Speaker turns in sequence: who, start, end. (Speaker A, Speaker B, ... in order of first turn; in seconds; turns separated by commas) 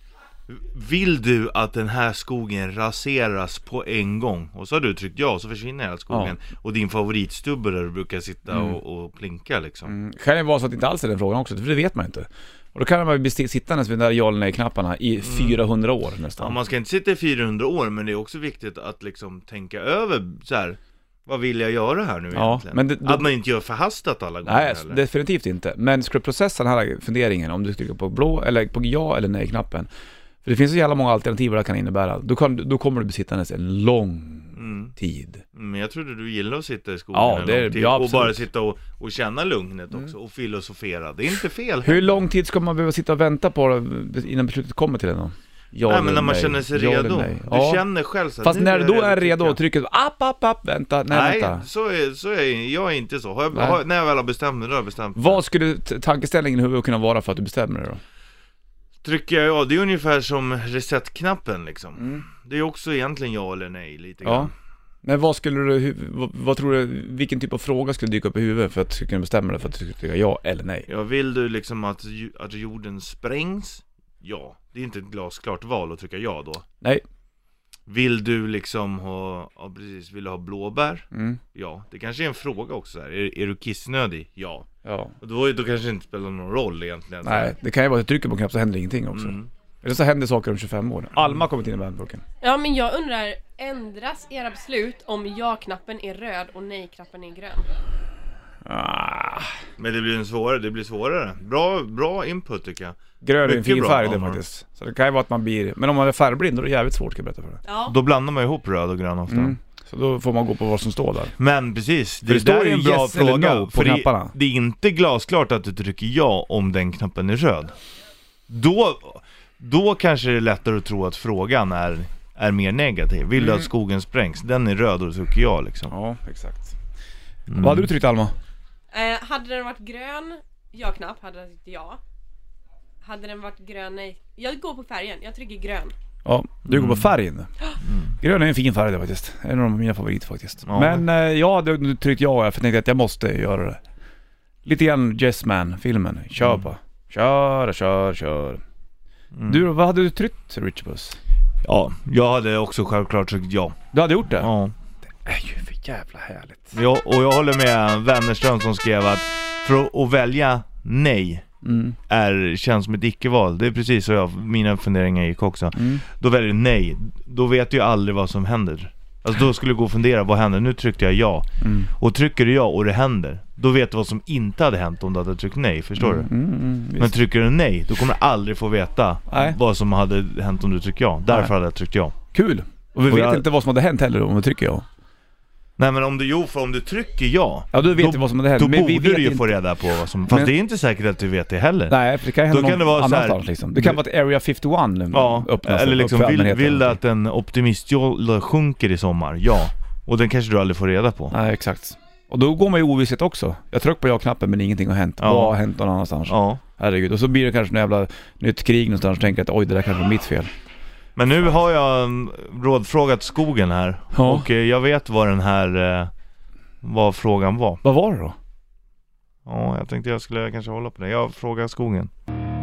Speaker A: 0.5-9.9, Speaker B: 6.1-6.4, Speaker B: 9.9-16.6, Speaker A: 15.2-15.6, Speaker A: 16.4-25.0, Speaker B: 22.3-23.3, Speaker B: 24.4-29.9, Speaker B: 30.4-35.4, Speaker A: 34.5-34.9, Speaker A: 35.5-42.2, Speaker B: 37.1-38.5, Speaker B: 41.8-47.8, Speaker A: 45.9-49.6, Speaker B: 48.4-51.6, Speaker A: 51.1-55.4, Speaker B: 53.5-53.8, Speaker B: 55.1-58.0, Speaker A: 59.0-64.5, Speaker B: 62.0-62.2, Speaker B: 64.2-64.5, Speaker B: 65.0-70.9, Speaker A: 70.9-76.7, Speaker A: 77.9-84.7, Speaker B: 81.1-81.4, Speaker B: 84.8-85.2, Speaker A: 85.2-87.5, Speaker B: 87.2-92.2, Speaker A: 89.1-89.5, Speaker C: 92.4-97.7, Speaker B: 98.7-99.5, Speaker A: 99.8-104.4, Speaker B: 103.2-107.6, Speaker C: 107.7-108.0, Speaker A: 107.9-109.6, Speaker B: 109.3-111.3, Speaker A: 111.4-117.8, Speaker B: 112.3-114.3, Speaker A: 118.5-125.9, Speaker B: 123.4-123.7, Speaker B: 125.9-126.8, Speaker A: 127.5-127.9, Speaker B: 127.5-128.3, Speaker C: 128.9-132.0, Speaker C: 133.0-135.9, Speaker B: 136.2-137.5, Speaker A: 136.7-137.1, Speaker A: 137.8-138.2, Speaker B: 138.2-143.8, Speaker A: 140.7-141.1, Speaker B: 144.7-148.6, Speaker A: 146.4-146.7, Speaker A: 149.3-149.7, Speaker B: 149.5-151.2, Speaker A: 151.6-154.7, Speaker B: 153.9-154.5, Speaker B: 155.2-156.8, Speaker A: 156.7-161.5, Speaker B: 161.6-162.0, Speaker A: 162.1-176.3, Speaker B: 165.8-166.0, Speaker B: 171.6-171.9, Speaker B: 176.0-177.2, Speaker A: 177.0-182.2, Speaker B: 179.3-179.6, Speaker B: 182.3-184.8, Speaker A: 183.1-183.4, Speaker A: 185.8-194.0, Speaker B: 187.7-189.6, Speaker B: 191.9-197.0, Speaker A: 195.1-201.3, Speaker B: 201.3-210.5, Speaker A: 205.2-205.6, Speaker A: 206.3-206.6, Speaker A: 211.2-216.1, Speaker B: 214.1-214.5, Speaker A: 216.8-217.8, Speaker B: 217.8-218.4, Speaker A: 219.4-222.1